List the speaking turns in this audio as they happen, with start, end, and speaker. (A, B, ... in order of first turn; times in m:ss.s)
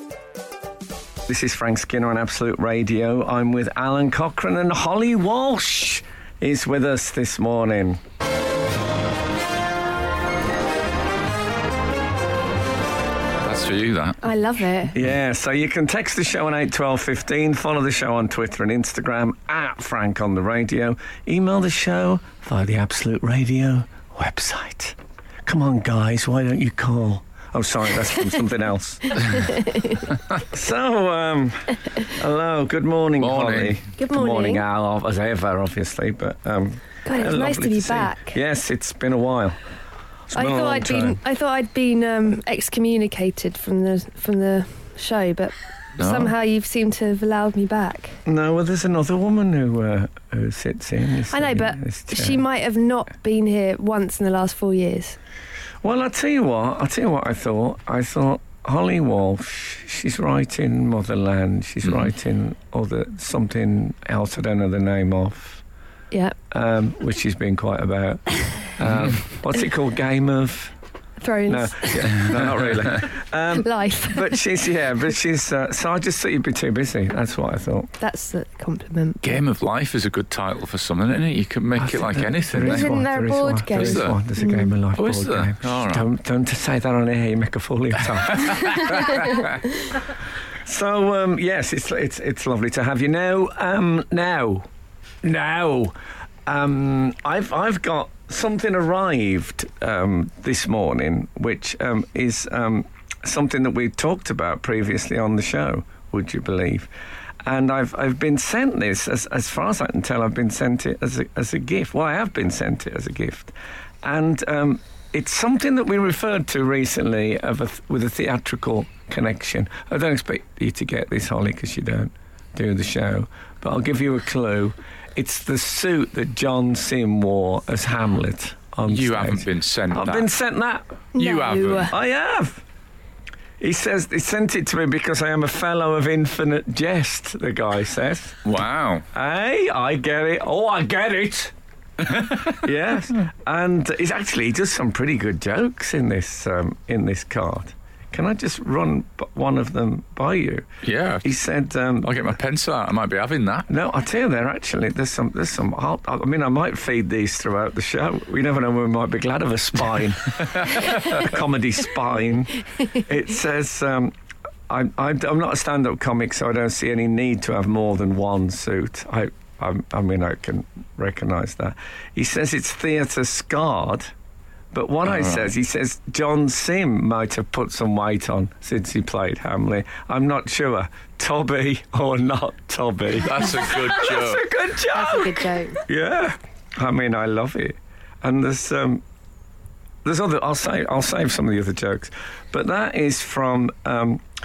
0:01.3-0:08.0 A
0:13.4-0:14.2 B
0:14.2-0:15.0 C
0:14.9-0:29.5 A
0:29.2-0:30.0 C
0:30.4-0:39.6 A
0:33.2-0:33.8 B
0:34.0-0:34.6 C
0:37.0-0:38.4 C
0:40.3-0:41.2 A
0:40.3-0:48.2 C
0:46.0-0:46.3 B
0:48.3-0:52.4 A
0:51.3-0:55.2 C
0:55.8-1:05.6 A
1:06.5-1:10.7 A
1:08.8-1:09.2 B
1:11.2-1:12.4 C
1:11.5-1:17.9 A
1:12.3-1:12.8 B
1:13.6-1:14.4 C
1:18.0-1:19.4 C
1:19.2-1:22.9 B
1:21.8-1:29.5 A
1:22.6-1:24.7 C
1:23.7-1:24.2 B
1:25.0-1:26.1 B
1:30.6-1:34.7 A
1:35.2-1:36.0 A
1:36.5-1:46.9 A
1:47.4-2:11.0 A
2:08.9-2:10.3 B
2:11.2-2:11.9 C
2:11.2-2:11.9 B
2:11.8-2:12.6 A
2:13.6-2:18.4 A
2:18.4-2:19.0 B
2:19.1-2:30.7 A
2:30.8-2:31.3 B
2:31.2-2:32.2 A
2:32.0-2:33.7 B
2:33.7-2:44.2 A
2:44.7-2:54.1 A
2:54.7-3:09.0 A
2:55.0-2:55.5 B
3:03.2-3:04.4 B
3:04.9-3:05.8 C
3:10.0-3:14.2 A